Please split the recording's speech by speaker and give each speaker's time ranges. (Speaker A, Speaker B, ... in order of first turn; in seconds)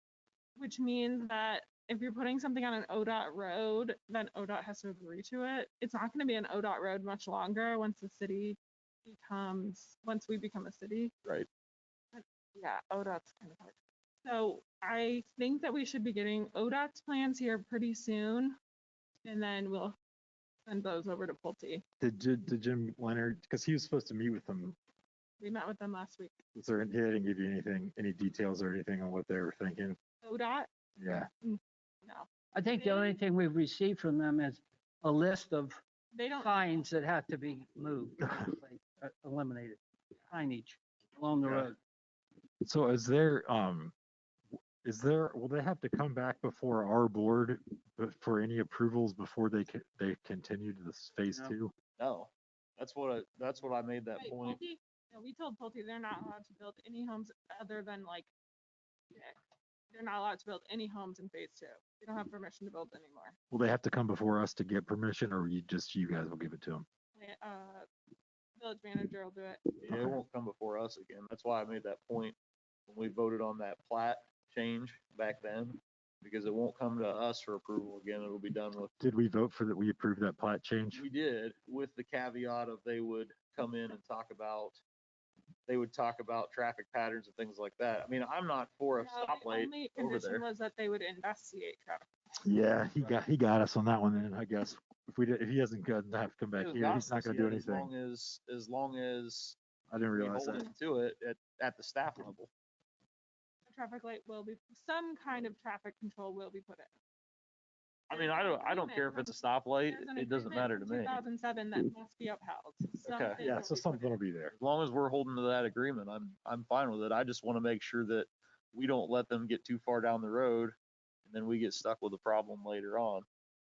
Speaker A: 0.6-11.1, 12.1-13.7, 14.2-18.6, 19.2-20.0, 20.6-21.8, 25.4-26.3, 30.2-30.7, 31.4-33.2, 36.1-36.8, 54.1-58.3, 59.9-63.3, 67.2-67.9, 68.6-69.7, 89.0-92.1, 103.7-106.9, 108.1-109.3, 109.9-114.1
Speaker B: 22.0-24.8, 26.5-30.0, 31.0-31.3, 42.6-43.9, 44.8-51.7, 63.5-66.8, 69.9-70.2, 79.0-81.0, 92.4-97.9, 99.9-100.7, 113.4-114.5
Speaker C: 32.6-35.8, 36.4-39.8, 40.3-41.6
Speaker D: 52.0-54.6, 69.8-72.3, 72.9-78.9, 80.9-84.8, 85.7-90.4, 96.5-99.6, 100.1-102.5, 108.1-111.2, 113.0-113.4, 114.5-120.7, 121.2-123.2